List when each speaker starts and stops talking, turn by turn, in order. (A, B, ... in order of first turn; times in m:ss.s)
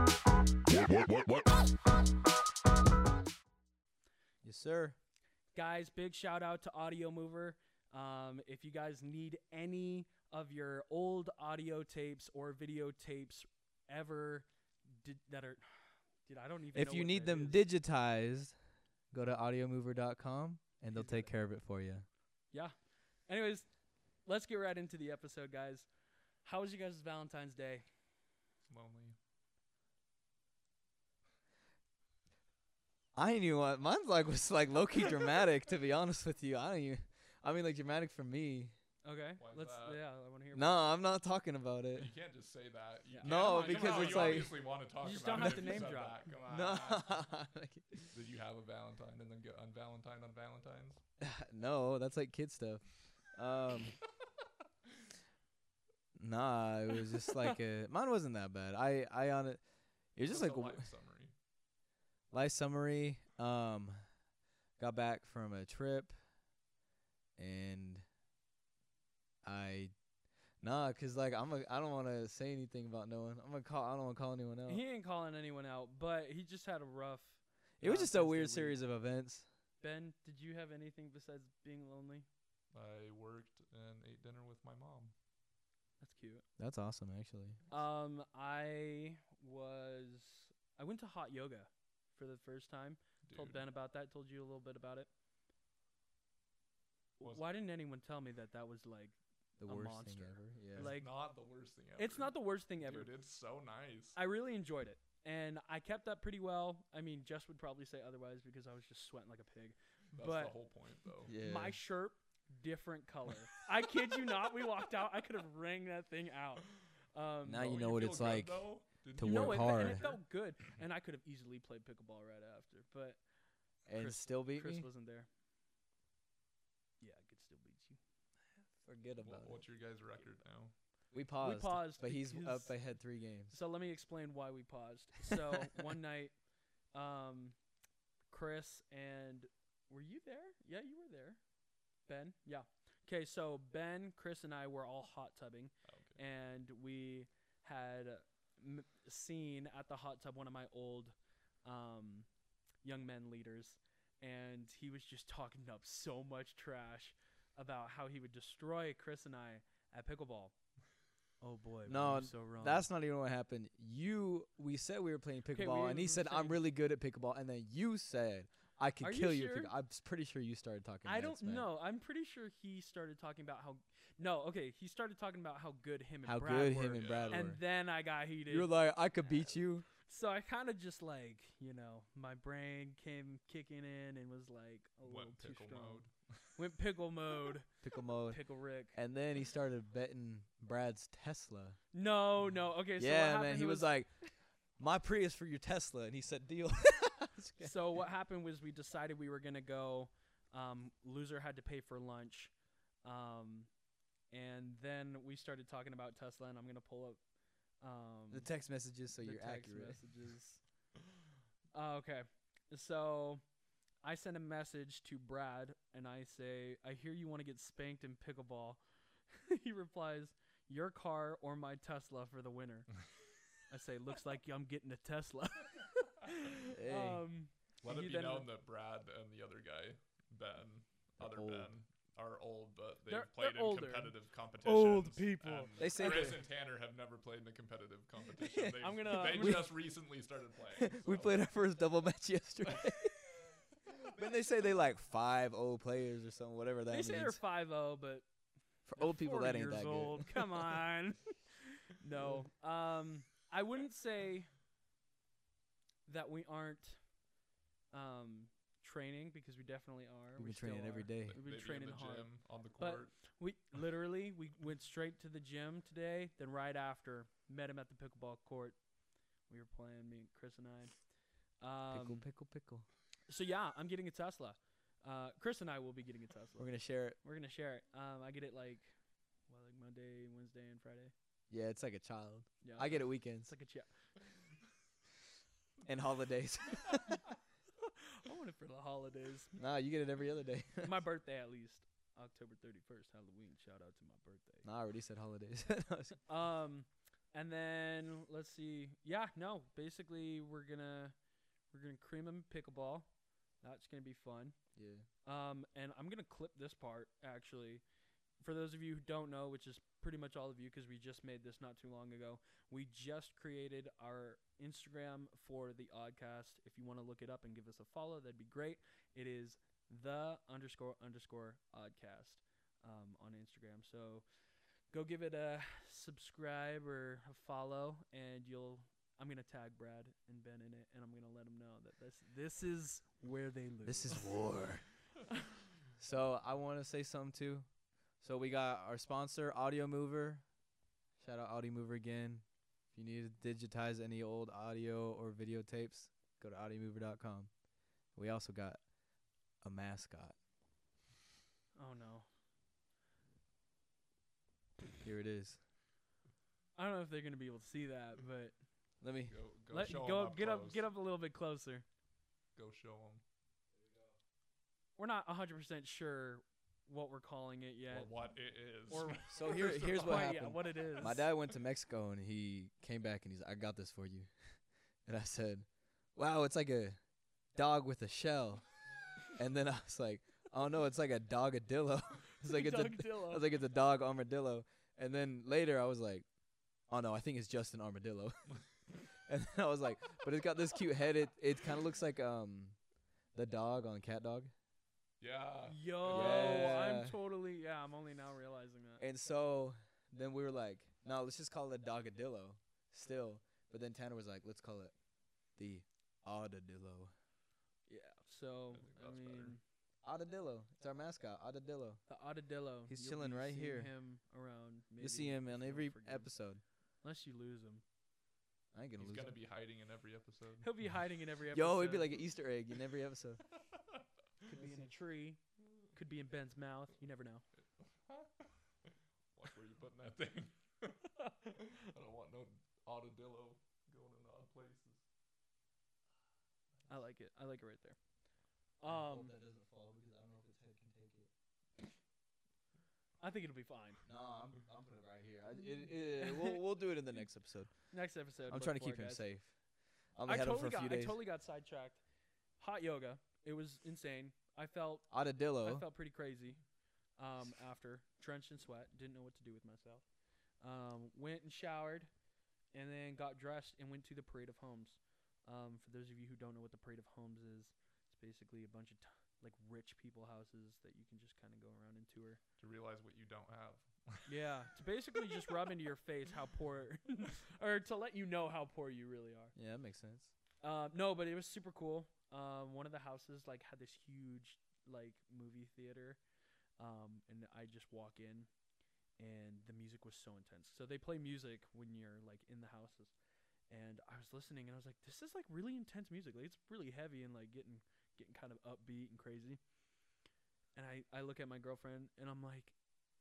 0:04.4-0:05.0 A
0:05.5-0:17.6 B
0:16.7-0:18.6 A
0:19.1-0:22.0 A
0:20.9-0:21.3 B
0:22.5-0:25.9 B
0:26.4-0:27.9 B
0:28.6-0:29.2 C
0:33.1-0:38.8 A
0:39.0-0:40.8 B
0:39.4-0:40.0 C
0:40.5-0:42.1 A
0:41.9-0:47.1 C
0:43.1-0:46.2 B
0:43.2-0:44.6 A
0:46.4-0:48.1 A
0:48.1-0:51.0 C
0:51.2-0:54.0 A
0:56.1-1:00.9 A
1:00.3-1:01.3 C
1:02.3-1:04.0 A
1:04.8-1:06.1 A
1:07.4-1:08.0 A
1:09.4-1:10.0 A
1:10.6-1:14.8 A
1:14.7-1:18.8 B
1:17.8-1:19.5 A
1:19.8-1:22.2 B
1:22.7-1:25.1 C
1:26.0-1:26.4 B
1:26.6-1:27.6 A
1:27.7-1:35.1 B
1:33.2-1:33.6 C
1:37.2-1:41.3 B
1:39.6-1:40.9 A
1:40.7-1:44.2 C
1:42.0-1:43.1 B
1:44.1-1:50.6 B
1:50.1-1:51.3 C
1:51.3-1:51.8 A
1:51.3-1:57.7 B
1:57.4-2:00.0 A
1:57.5-2:00.2 C
1:59.2-2:03.2 B
2:03.8-2:04.9 A
2:03.9-2:05.3 B
2:07.0-2:08.0 B
2:08.6-2:09.6 A
2:09.2-2:10.8 C
2:11.1-2:13.5 A
2:11.4-2:13.0 B
2:13.5-2:17.6 B
2:18.3-2:21.4 B
2:22.0-2:32.3 B
2:25.8-2:26.2 C
2:32.8-2:40.5 B
2:41.4-2:42.9 B
2:41.8-2:51.7 A
2:45.5-2:46.6 B
2:49.0-2:49.7 B
2:51.0-3:09.0 B
2:56.2-2:57.6 A
2:56.9-2:57.5 C
2:58.5-2:59.9 A
3:05.0-3:06.6 C
3:07.8-3:11.8 A
3:11.9-3:13.9 B
3:13.0-3:17.7 A
3:17.6-3:23.7 B
3:24.3-3:27.3 B
3:27.8-3:28.6 B
3:28.3-3:30.4 A
3:29.1-3:30.6 B
3:31.7-3:48.5 B
3:46.7-3:47.3 A
3:47.8-4:01.4 C
3:51.2-3:51.7 A
3:53.1-3:56.2 B
3:55.8-3:56.4 A
3:58.4-3:58.8 A
3:58.8-3:59.7 B
3:59.3-3:59.7 A
4:00.8-4:07.4 A
4:02.7-4:03.1 C
4:06.9-4:08.3 B
4:08.8-4:10.7 A
4:08.9-4:14.5 B
4:16.0-4:17.2 B
4:17.9-4:28.8 B
4:20.4-4:21.4 A
4:21.3-4:23.4 C
4:29.4-4:32.3 B
4:31.9-4:32.9 A
4:33.3-4:41.1 B
4:36.6-4:37.2 A
4:41.5-4:43.5 A
4:42.6-4:44.1 B
4:45.8-4:47.2 A
4:48.2-4:49.6 B
4:49.6-4:51.0 A
4:50.8-4:54.6 B
4:54.6-4:56.2 A
4:56.2-5:01.2 B
5:01.7-5:04.6 B
5:04.7-5:05.1 A
5:05.2-5:07.8 B
5:08.4-5:34.5 B
5:33.8-5:35.0 A
5:35.9-5:40.5 A
5:41.2-5:47.5 A
5:48.1-5:48.8 A
5:49.6-5:50.4 A
5:51.8-5:52.3 B
5:55.0-5:55.6 A
5:56.7-5:58.6 B
5:59.0-5:59.3 A
5:59.3-6:00.9 C
5:59.7-6:01.8 B
6:02.5-6:03.2 C
6:03.7-6:04.2 A
6:05.0-6:08.1 B
6:07.9-6:11.0 C
6:08.9-6:11.2 B
6:09.2-6:26.3 A
6:22.4-6:23.4 B
6:26.8-6:32.8 A
6:33.3-6:34.5 A
6:35.2-6:36.8 C
6:35.7-6:39.0 B
6:36.1-6:37.2 A
6:39.0-6:44.9 A
6:45.5-6:47.1 A
6:47.9-6:49.6 B
6:48.7-6:49.6 C
6:50.0-6:52.0 A
6:52.1-6:56.4 B
6:52.8-6:53.9 A
6:55.0-6:56.6 A
6:57.0-6:57.8 B
6:58.7-6:59.3 A
6:59.0-7:00.9 C
7:00.6-7:02.2 B
7:01.5-7:03.4 A
7:04.5-7:04.9 A
7:04.5-7:07.4 B
7:07.6-7:15.0 C
7:16.9-7:18.1 B
7:18.6-7:19.3 B
7:18.8-7:21.3 A
7:23.2-7:24.0 B
7:24.0-7:29.6 A
7:26.2-7:26.6 B
7:27.8-7:29.3 B
7:30.1-7:31.2 A
7:30.2-7:32.0 B
7:32.6-7:40.1 B
7:35.1-7:35.8 A
7:40.6-7:42.1 B
7:42.7-7:52.4 B
7:52.6-7:54.3 C
7:54.2-7:59.5 B
7:59.6-8:00.3 A
8:00.6-8:06.2 B
8:06.8-8:08.5 B
8:09.2-8:13.1 B
8:13.7-8:19.6 B
8:20.7-8:22.8 B